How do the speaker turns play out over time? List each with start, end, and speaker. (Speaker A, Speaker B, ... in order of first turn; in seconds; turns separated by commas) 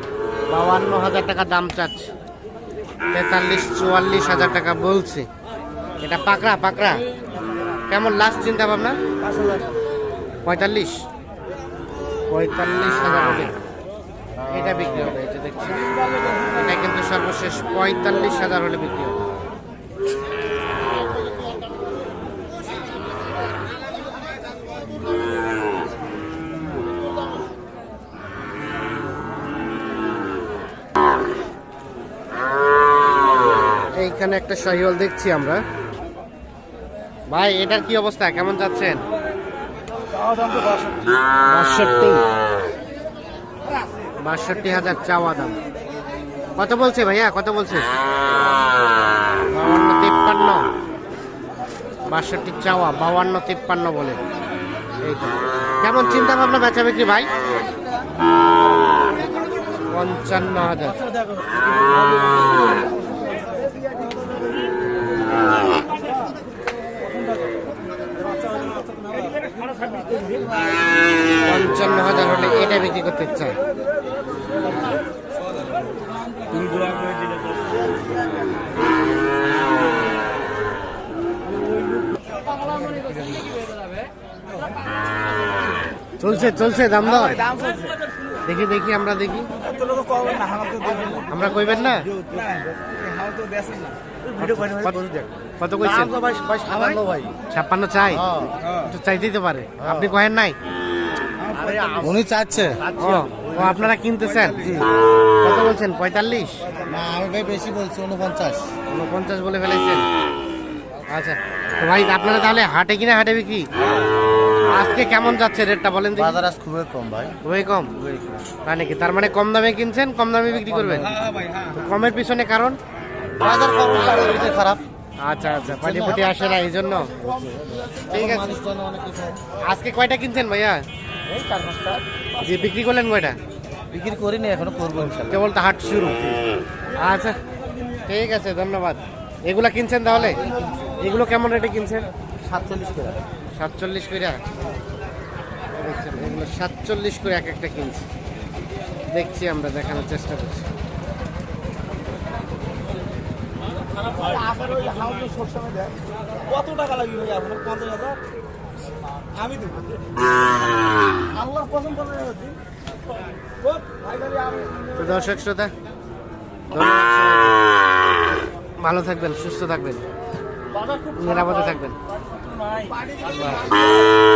Speaker A: 0.5-2.1, Speaker A: 3.1-5.3, Speaker A: 6.0-7.0, Speaker A: 7.9-9.0, Speaker B: 9.2-9.6, Speaker A: 10.4-11.1, Speaker A: 12.3-13.5, Speaker A: 14.5-15.8, Speaker A: 16.5-19.2, Speaker A: 34.0-35.6, Speaker A: 37.3-39.0, Speaker B: 40.1-41.1, Speaker A: 41.5-42.2, Speaker A: 44.2-45.6, Speaker A: 46.6-47.9, Speaker A: 49.5-50.7, Speaker A: 52.1-54.2, Speaker A: 55.0-57.3, Speaker A: 59.9-61.0, Speaker B: 68.6-69.3, Speaker A: 71.4-73.5, Speaker B: 76.4-77.3, Speaker A: 86.2-87.4, Speaker B: 87.2-88.0, Speaker A: 88.4-89.5, Speaker B: 89.6-91.3, Speaker A: 91.3-92.1, Speaker B: 92.2-94.8, Speaker C: 94.4-95.3, Speaker A: 94.6-95.0, Speaker A: 95.6-96.2, Speaker C: 95.8-97.3, Speaker A: 97.5-98.2, Speaker C: 98.1-98.5, Speaker A: 98.8-100.5, Speaker C: 99.8-100.1, Speaker B: 101.5-102.1, Speaker C: 101.7-102.9, Speaker A: 103.0-104.7, Speaker C: 104.6-104.9, Speaker A: 105.4-106.7, Speaker C: 106.8-108.7, Speaker A: 108.9-110.0, Speaker A: 111.1-113.7, Speaker A: 114.7-116.4, Speaker C: 116.2-117.4, Speaker A: 117.4-117.9, Speaker A: 118.6-121.1, Speaker B: 121.2-121.6, Speaker A: 121.7-122.8, Speaker C: 123.4-124.8, Speaker A: 125.2-127.1, Speaker C: 125.8-126.4, Speaker C: 127.2-129.4, Speaker A: 128.1-128.5, Speaker A: 129.6-130.8, Speaker C: 131.3-132.0, Speaker A: 132.4-133.4, Speaker C: 133.9-135.4, Speaker A: 135.2-136.2, Speaker A: 136.9-137.4, Speaker A: 138.1-140.4, Speaker A: 141.0-142.1, Speaker C: 142.4-143.2, Speaker A: 143.6-144.4, Speaker A: 145.8-148.1, Speaker A: 149.1-150.7, Speaker B: 154.1-158.2, Speaker B: 159.4-159.8, Speaker B: 161.3-162.6, Speaker B: 163.6-164.9, Speaker A: 164.9-165.7, Speaker A: 166.7-167.6, Speaker A: 168.8-170.0, Speaker A: 171.1-172.0, Speaker B: 172.5-173.1, Speaker A: 173.2-173.7